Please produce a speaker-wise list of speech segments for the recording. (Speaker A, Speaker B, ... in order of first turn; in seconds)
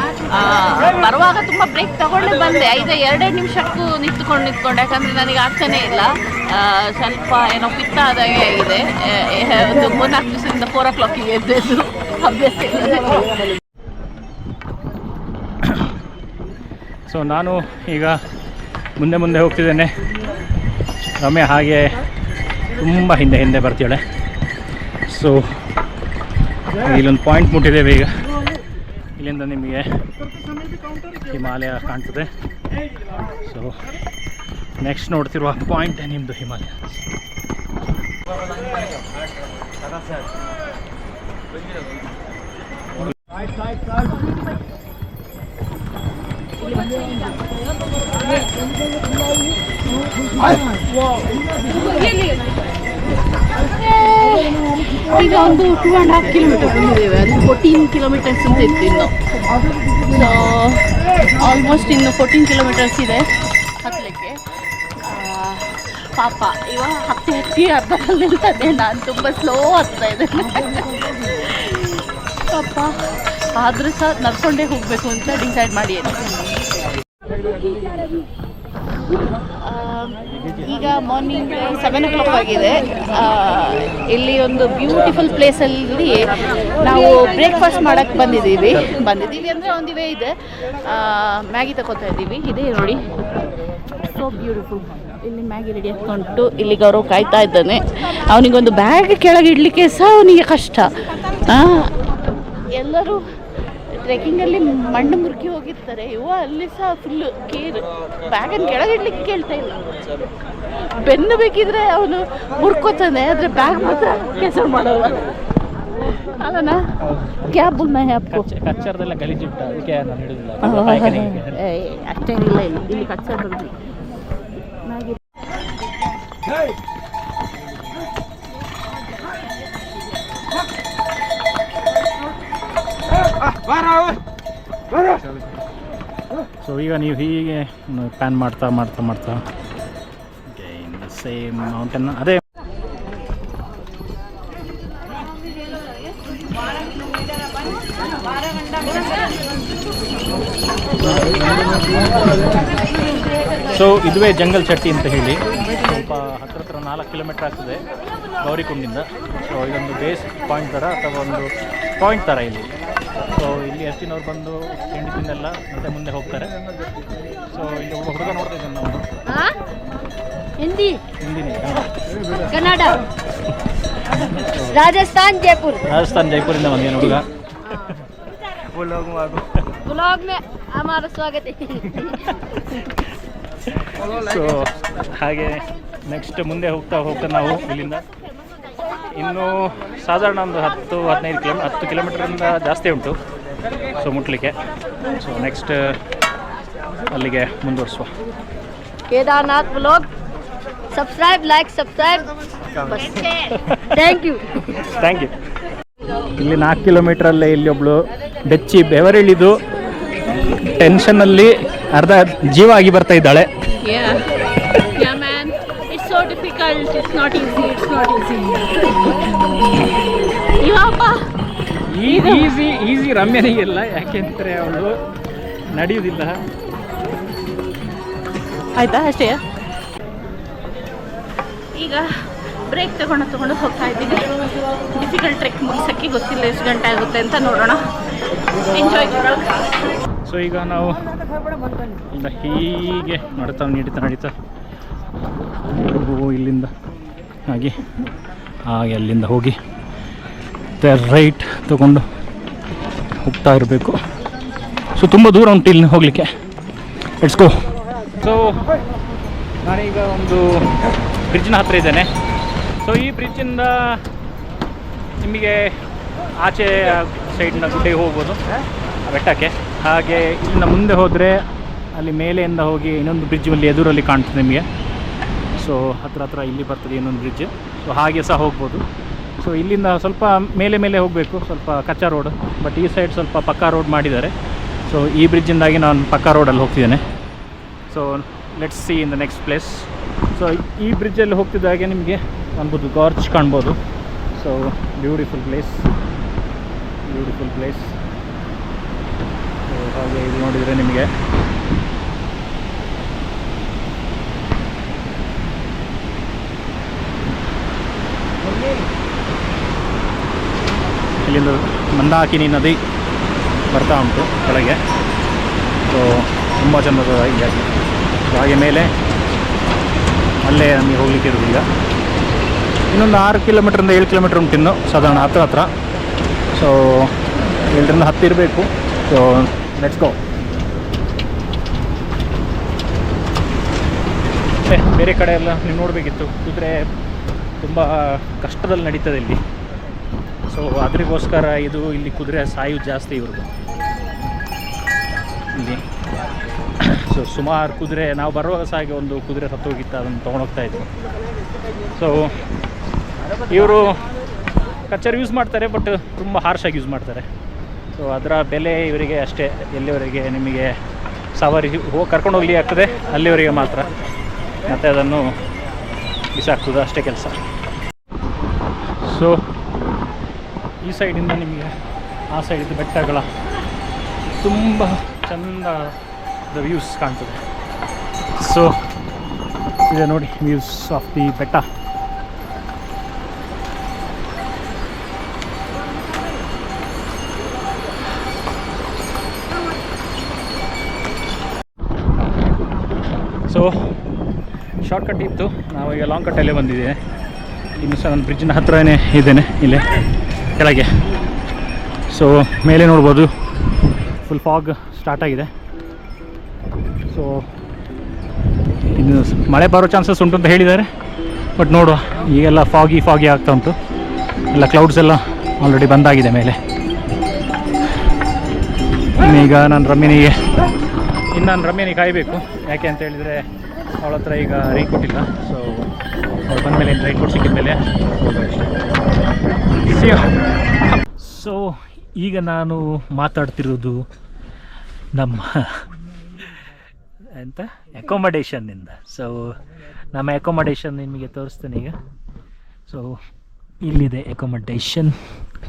Speaker A: 0.3-13.2, 51.7-52.5, 54.2-59.1, 60.1-60.8, 61.4-63.2, 63.8-64.3, 65.0-72.0, 72.5-73.0, 73.5-76.3, 79.6-90.3, 90.8-93.0, 94.1-100.9, 101.4-101.9, 102.8-103.2, 104.0-109.8, 111.0-115.2, 116.4-116.8, 117.5-118.4, 120.6-123.8, 124.9-125.2, 213.8-214.2, 214.8-218.7, 220.6-221.2, 222.1-222.5, 228.8-229.4, 231.7-232.1, 232.7-237.8, 238.7-239.5
Speaker B: 17.1-18.2, 19.0-19.9, 21.2-22.0, 22.8-24.0, 25.1-25.4, 26.8-28.1, 29.2-29.9, 31.2-32.3, 33.4-33.8, 34.8-37.0, 118.3-121.6, 136.6-139.4, 140.5-142.4, 153.7-157.8, 158.4-162.7, 163.3-166.5, 167.5-169.0, 171.2-171.9, 174.3-174.8, 175.8-177.2, 178.9-179.3, 181.8-182.3, 183.7-188.0, 189.1-193.2, 194.0-194.5, 195.2-195.9, 197.1-198.1, 203.6-204.1, 204.7-205.3, 206.4-209.6, 210.7-213.5, 221.9-225.0, 225.7-226.4, 240.2-241.0, 242.1-244.3, 245.7-246.7, 247.5-247.8, 248.6-249.6, 250.8-252.0, 253.2-253.9, 254.9-256.3, 257.2-257.6, 258.1-258.6, 259.6-260.6, 261.3-262.1, 262.8-264.0, 265.2-265.7, 266.4-268.4, 269.1-271.4, 271.9-274.6, 275.5-278.8, 279.4-284.3, 284.9-287.0, 287.9-293.8, 294.3-295.9, 297.1-298.0, 299.7-301.1, 311.2-312.8, 313.7-314.8, 315.9-317.7, 318.3-318.9, 320.4-321.6, 322.9-325.7, 326.5-327.1, 327.7-330.2, 334.7-336.8, 337.6-339.4, 340.5-343.5, 345.5-345.8, 346.8-350.9, 351.9-352.4, 353.5-354.0, 354.9-357.3, 357.9-360.8, 361.3-363.9, 364.7-365.3, 366.3-367.4, 369.0-369.4, 370.8-371.7, 372.3-373.3, 374.4-375.9, 376.5-377.4, 378.4-378.8, 379.9-381.6, 393.5-393.8, 394.8-397.0, 397.8-399.8, 400.6-400.9, 402.1-403.3, 404.2-405.5, 407.1-407.4, 408.9-410.9, 411.6-413.8, 414.5-416.6, 419.2-420.4, 421.3-423.4, 424.0-425.9, 426.5-428.7, 429.9-430.3, 431.1-434.0, 435.1-435.8, 437.3-439.5, 440.1-441.9, 442.9-443.1, 443.9-445.1
Speaker C: 169.2-169.5, 170.6-171.0, 172.5-173.0, 174.7-175.8, 179.8-182.0, 199.1-200.1, 200.9-203.5, 204.0-204.5